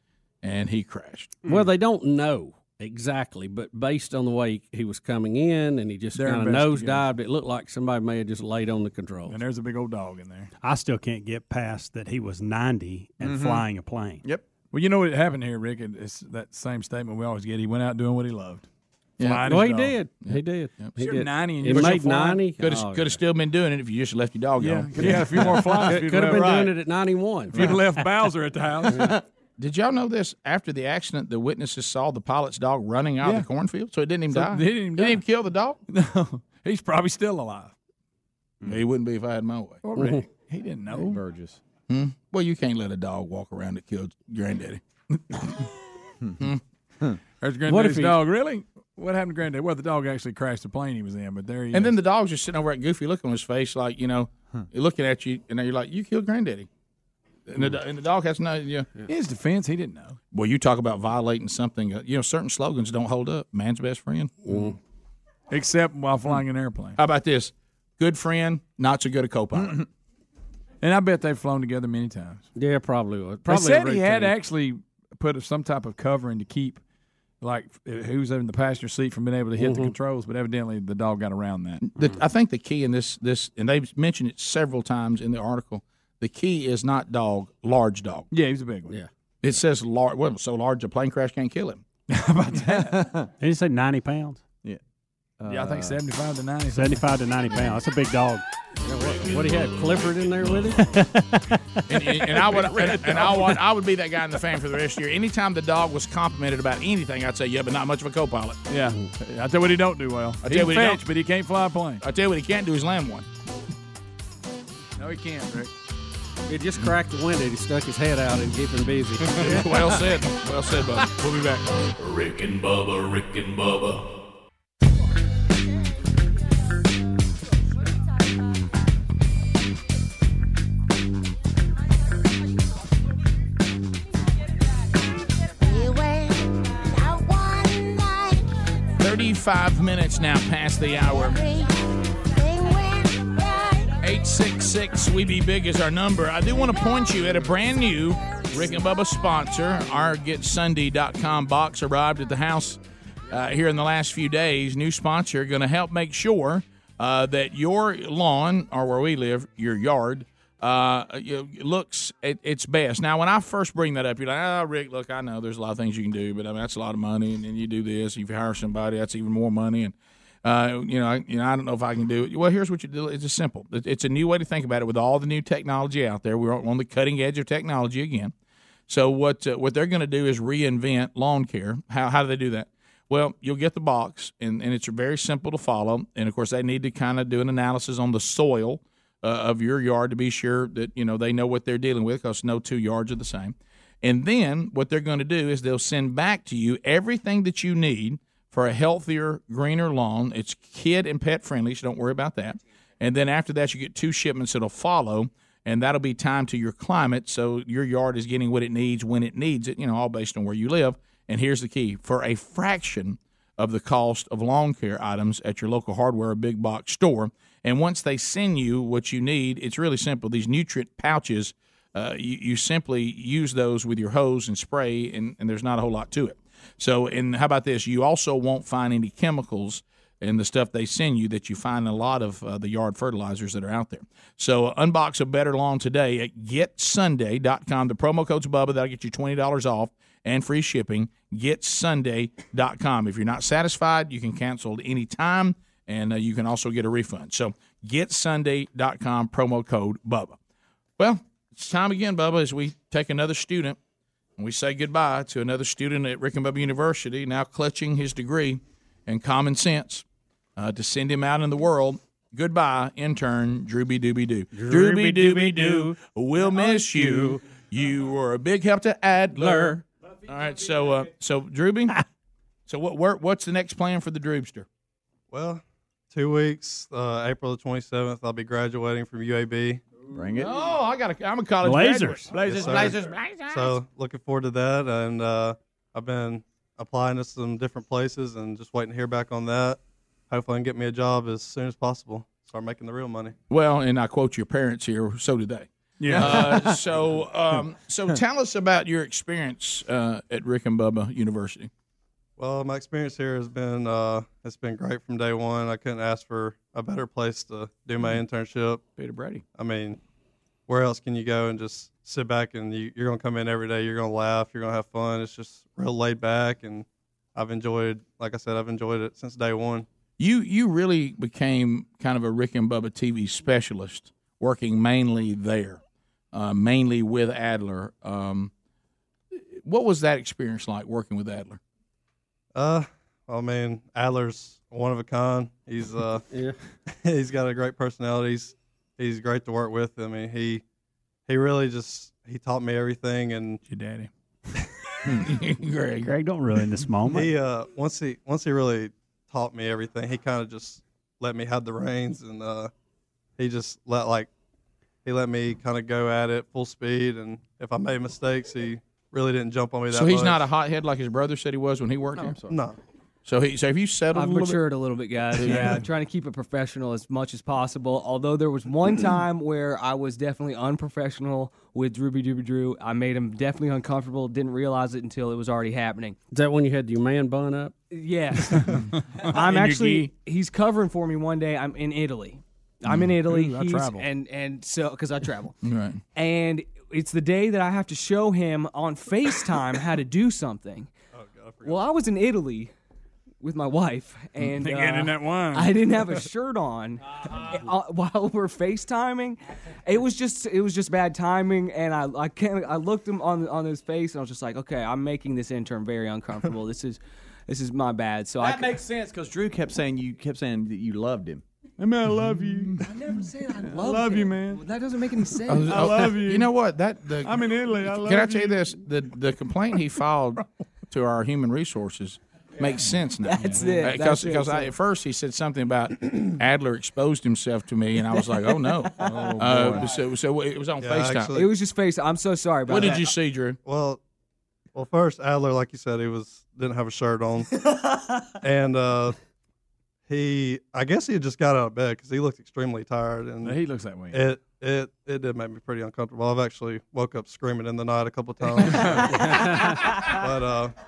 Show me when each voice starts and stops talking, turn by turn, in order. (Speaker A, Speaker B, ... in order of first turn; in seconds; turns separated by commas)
Speaker A: 0.4-1.4, Speaker B: 1.4-9.4, Speaker C: 6.1-7.1, Speaker C: 9.3-10.5, Speaker D: 10.6-14.2, Speaker E: 13.2-13.7, Speaker C: 14.7-18.7, Speaker A: 19.2-19.5, Speaker C: 19.2-20.0, Speaker B: 19.4-23.2, Speaker A: 20.2-20.9, Speaker C: 21.0-22.4, Speaker A: 22.6-25.5, Speaker C: 24.6-26.7, Speaker B: 25.0-27.8, Speaker C: 27.5-29.1, Speaker A: 29.6-35.8, Speaker C: 33.2-33.5, Speaker C: 34.3-35.2, Speaker C: 35.9-37.7, Speaker A: 38.6-39.8, Speaker C: 39.8-41.2, Speaker B: 40.0-40.3, Speaker E: 40.9-41.6, Speaker A: 41.9-45.6, Speaker C: 47.4-52.0, Speaker B: 47.7-48.2, Speaker A: 51.7-56.7, Speaker A: 57.5-58.9, Speaker C: 59.1-60.2, Speaker A: 60.3-64.7, Speaker B: 64.5-64.7, Speaker C: 65.5-67.0, Speaker A: 67.0-69.8, Speaker E: 69.6-69.8, Speaker C: 70.8-72.5, Speaker B: 72.5-74.3, Speaker C: 73.5-76.8, Speaker C: 77.4-81.8, Speaker B: 79.6-80.0, Speaker A: 81.8-88.3, Speaker C: 88.3-89.0, Speaker A: 89.4-91.9, Speaker C: 92.1-93.0, Speaker E: 92.5-93.3, Speaker D: 93.4-94.4, Speaker E: 95.4-96.0, Speaker C: 95.5-97.0, Speaker D: 96.7-98.4, Speaker B: 98.8-100.9, Speaker D: 100.8-101.8, Speaker A: 101.9-108.6, Speaker C: 102.3-103.6, Speaker C: 108.7-112.0, Speaker A: 110.4-111.1, Speaker A: 112.0-113.3, Speaker C: 115.0-115.7, Speaker B: 116.5-119.7, Speaker A: 119.4-121.6, Speaker F: 122.0-124.1, Speaker A: 139.0-141.4, Speaker A: 144.0-178.3, Speaker A: 178.9-250.4, Speaker A: 251.0-253.8, Speaker A: 254.4-260.1, Speaker A: 260.6-272.0, Speaker B: 264.6-265.7, Speaker D: 264.7-265.8, Speaker B: 269.4-269.8, Speaker A: 272.7-274.7, Speaker G: 275.3-279.8, Speaker E: 280.1-280.5, Speaker A: 280.4-283.8, Speaker D: 281.6-282.4, Speaker G: 282.5-289.8, Speaker G: 290.3-293.4, Speaker A: 293.5-301.7, Speaker C: 296.0-296.6, Speaker G: 302.4-308.8, Speaker G: 309.6-310.0, Speaker G: 310.7-319.9, Speaker A: 320.2-325.8, Speaker A: 326.3-328.5, Speaker A: 329.3-331.6, Speaker G: 332.6-336.2, Speaker G: 336.9-340.6, Speaker G: 341.3-343.6, Speaker C: 343.7-344.1, Speaker A: 345.1-346.1, Speaker D: 346.0-347.3, Speaker G: 347.1-352.7, Speaker G: 353.4-354.3, Speaker G: 355.1-360.4, Speaker A: 359.9-362.4, Speaker E: 362.2-362.5, Speaker G: 362.4-362.8, Speaker A: 363.2-364.6, Speaker H: 364.1-376.2, Speaker A: 365.3-365.8, Speaker B: 376.3-377.7, Speaker H: 377.9-385.5, Speaker A: 379.3-380.1, Speaker C: 382.9-384.1, Speaker A: 385.6-386.0, Speaker H: 386.1-390.9, Speaker G: 391.1-391.9, Speaker H: 391.6-392.7, Speaker H: 393.4-408.8, Speaker C: 394.4-395.7, Speaker E: 408.4-411.4, Speaker C: 411.8-412.8, Speaker H: 412.8-416.0, Speaker C: 413.8-414.6, Speaker A: 415.5-431.4, Speaker C: 415.7-416.5, Speaker C: 417.2-418.7, Speaker H: 423.2-424.7, Speaker C: 429.0-429.9, Speaker G: 430.8-431.5, Speaker H: 431.3-433.1, Speaker A: 432.7-433.6, Speaker G: 432.8-433.1, Speaker G: 433.6-434.0, Speaker G: 434.7-437.5, Speaker G: 438.4-439.2, Speaker G: 440.1-443.6, Speaker C: 443.4-444.3, Speaker G: 444.1-450.7